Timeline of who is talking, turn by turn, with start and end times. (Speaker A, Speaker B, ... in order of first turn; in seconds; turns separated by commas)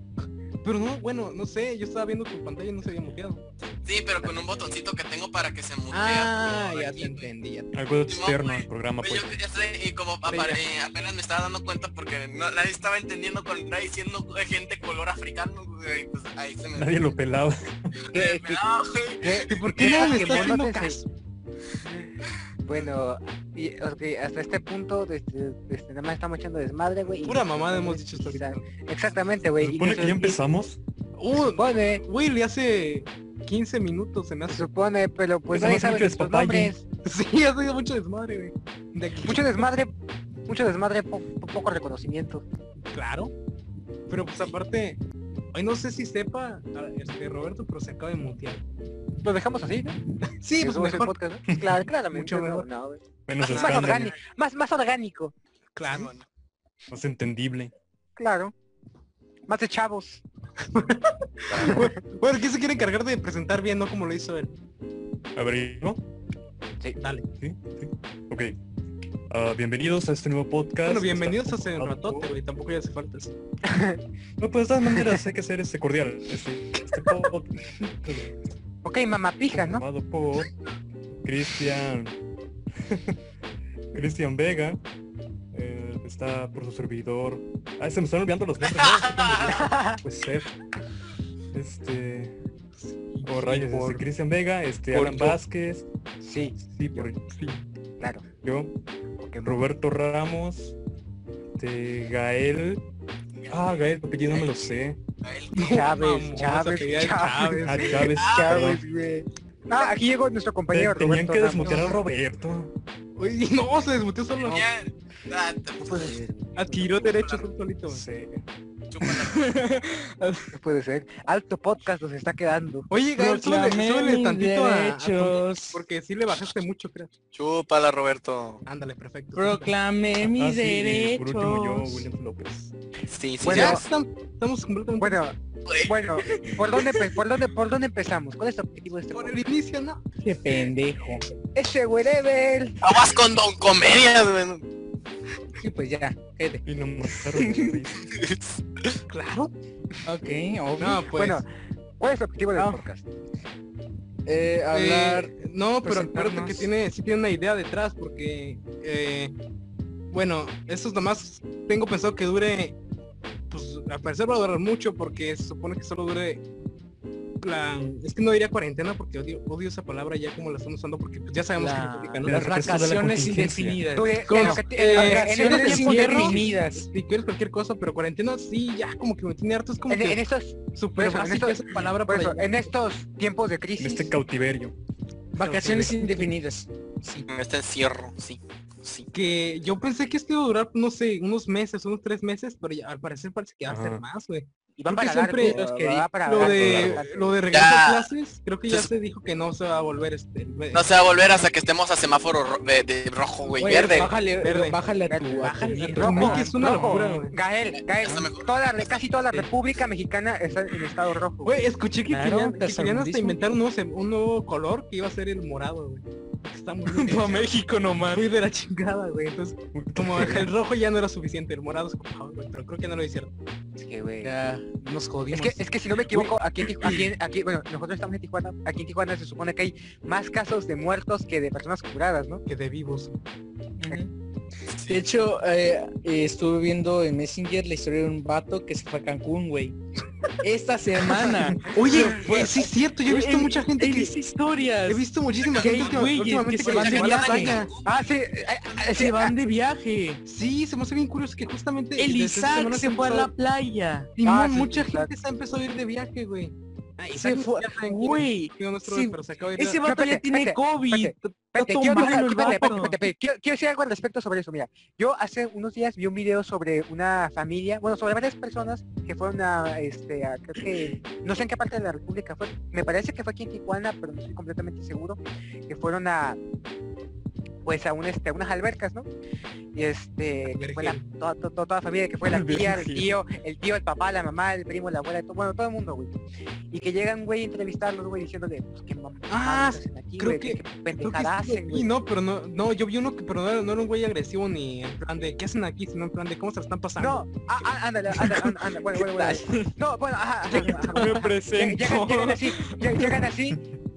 Speaker A: 0.6-3.4, Speaker B: 3.8-7.3, Speaker C: 4.2-4.8, Speaker A: 5.9-7.7, Speaker D: 7.7-9.3, Speaker B: 8.1-17.1, Speaker A: 10.3-10.6, Speaker D: 16.7-17.9, Speaker E: 18.1-18.6, Speaker B: 18.1-20.4, Speaker C: 19.2-21.0, Speaker A: 19.5-21.0, Speaker C: 22.6-30.4, Speaker A: 27.2-28.6, Speaker D: 29.6-30.8, Speaker A: 31.2-34.7, Speaker C: 31.5-32.0, Speaker C: 34.5-36.8, Speaker D: 35.5-36.8, Speaker A: 37.0-39.6, Speaker C: 39.2-39.9, Speaker C: 40.5-42.4, Speaker A: 42.9-43.3, Speaker A: 44.1-45.0, Speaker A: 45.5-48.6, Speaker C: 49.2-50.0, Speaker A: 50.4-51.1, Speaker C: 50.6-55.3, Speaker D: 51.5-51.8, Speaker A: 52.1-52.6, Speaker D: 53.3-54.1, Speaker A: 53.4-54.1, Speaker A: 55.8-56.1, Speaker B: 55.8-56.2, Speaker D: 56.9-57.7, Speaker C: 58.1-58.5, Speaker C: 59.5-60.2, Speaker A: 60.7-64.5, Speaker C: 61.5-61.9, Speaker D: 65.3-66.0, Speaker A: 67.0-67.3, Speaker D: 67.4-68.5, Speaker D: 69.3-72.3, Speaker A: 70.8-73.3, Speaker C: 73.7-74.0, Speaker D: 74.4-78.3, Speaker C: 74.9-75.2, Speaker C: 78.8-79.8, Speaker D: 79.5-80.5, Speaker D: 81.2-82.1, Speaker D: 83.9-84.8, Speaker D: 85.5-90.5, Speaker B: 88.8-89.6, Speaker C: 89.5-90.0, Speaker D: 91.5-92.3, Speaker A: 92.8-94.0, Speaker D: 93.2-95.8, Speaker A: 94.9-95.4, Speaker C: 96.2-97.1, Speaker D: 96.6-97.6, Speaker D: 98.2-98.7, Speaker C: 99.2-99.7, Speaker D: 99.4-100.8, Speaker D: 101.6-102.8, Speaker B: 103.4-104.4, Speaker D: 103.5-105.0, Speaker B: 105.2-105.5, Speaker A: 105.5-108.1, Speaker C: 105.5-112.0, Speaker D: 107.7-108.8, Speaker B: 108.1-108.7, Speaker D: 110.7-112.7, Speaker A: 111.6-111.9, Speaker A: 113.2-114.7, Speaker B: 114.4-116.2, Speaker C: 115.8-116.8, Speaker A: 116.5-118.0, Speaker B: 117.0-117.5, Speaker D: 117.9-118.4, Speaker B: 118.9-119.5, Speaker E: 119.0-120.5, Speaker C: 120.5-122.9, Speaker A: 122.9-127.1, Speaker E: 123.2-125.8, Speaker B: 127.3-128.6, Speaker A: 128.7-129.7, Speaker E: 129.3-132.1, Speaker D: 130.2-132.7, Speaker B: 133.1-133.8, Speaker C: 133.4-133.8, Speaker A: 133.4-135.2, Speaker C: 135.0-139.5, Speaker A: 139.1-140.0, Speaker E: 140.2-141.2, Speaker C: 141.5-142.8, Speaker B: 142.8-144.6, Speaker E: 145.6-146.6, Speaker D: 146.6-148.1, Speaker E: 147.3-147.8, Speaker B: 148.1-149.0, Speaker A: 149.1-149.5, Speaker E: 150.0-151.0, Speaker A: 150.8-151.4, Speaker C: 151.2-151.5, Speaker C: 152.0-153.1, Speaker E: 152.5-152.8, Speaker E: 154.2-156.7, Speaker A: 154.7-159.3, Speaker A: 160.1-162.8, Speaker A: 163.5-166.4, Speaker A: 167.4-172.4, Speaker E: 171.6-176.8, Speaker D: 172.2-173.8, Speaker C: 173.9-176.6, Speaker A: 174.3-180.2, Speaker C: 179.9-184.1, Speaker A: 180.7-182.6, Speaker D: 183.8-184.8, Speaker A: 185.3-186.3, Speaker E: 185.4-187.3, Speaker B: 187.3-189.1, Speaker A: 189.1-195.6, Speaker D: 193.7-194.0, Speaker C: 194.8-197.3, Speaker E: 195.4-196.4, Speaker A: 196.2-201.4, Speaker D: 196.4-197.0, Speaker B: 197.5-198.1, Speaker B: 200.7-204.1, Speaker A: 203.5-204.8, Speaker E: 203.6-207.3, Speaker C: 205.1-211.6, Speaker A: 205.4-207.3, Speaker B: 207.9-209.0, Speaker A: 211.4-217.5, Speaker E: 212.1-213.4, Speaker E: 216.9-218.3, Speaker A: 218.1-223.3, Speaker D: 219.7-220.4, Speaker C: 223.8-224.3, Speaker E: 224.2-227.0, Speaker C: 225.3-232.4, Speaker A: 232.4-233.2, Speaker E: 233.8-234.1, Speaker E: 234.7-239.8, Speaker B: 234.7-235.0, Speaker E: 240.4-245.1, Speaker A: 241.2-244.2, Speaker C: 241.7-242.1, Speaker A: 244.9-247.7, Speaker B: 245.4-248.0, Speaker E: 245.6-247.6, Speaker C: 247.8-249.3, Speaker E: 248.9-250.2, Speaker A: 250.2-253.3, Speaker E: 252.0-254.1, Speaker A: 254.2-259.8, Speaker C: 254.2-255.1, Speaker E: 257.1-263.0, Speaker C: 259.8-276.4, Speaker C: 277.6-279.1, Speaker C: 279.7-286.1, Speaker A: 280.4-281.0, Speaker D: 282.4-283.1, Speaker E: 282.5-283.0, Speaker C: 286.7-291.9, Speaker A: 289.3-297.3, Speaker C: 297.0-303.6, Speaker E: 298.2-299.7, Speaker E: 300.5-303.2